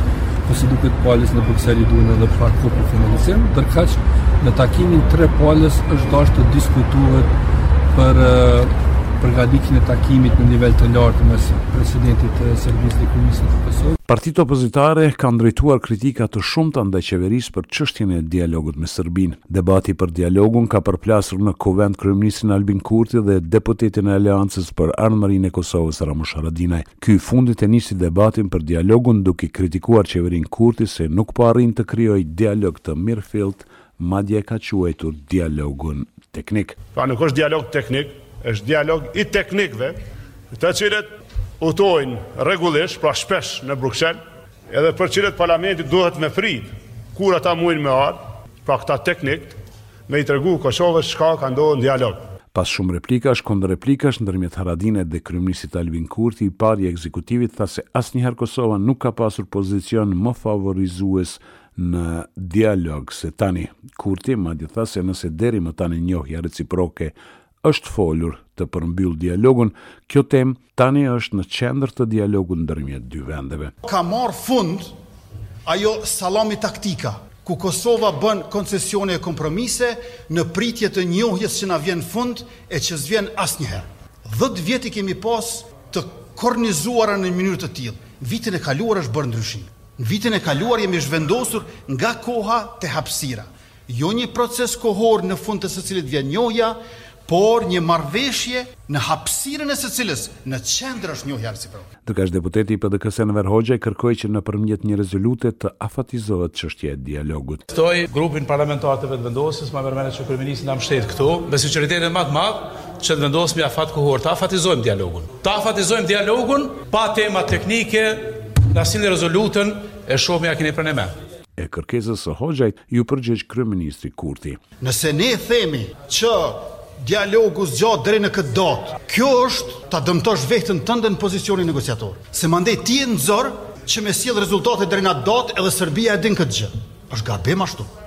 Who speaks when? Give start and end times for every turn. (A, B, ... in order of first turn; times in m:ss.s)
0:00.4-0:07.3 A
0:07.9-0:14.0 A
0:14.1-0:36.8 B
0:36.9-0:40.0 C
0:40.5-0:41.1 C
0:41.6-0:44.2 C
0:44.7-0:52.2 C
0:52.5-1:13.7 B
1:13.8-1:14.9 D
1:15.6-1:41.8 D
1:42.0-1:47.6 B
1:47.7-2:01.1 E
2:01.6-2:04.6 B
2:04.8-2:17.9 D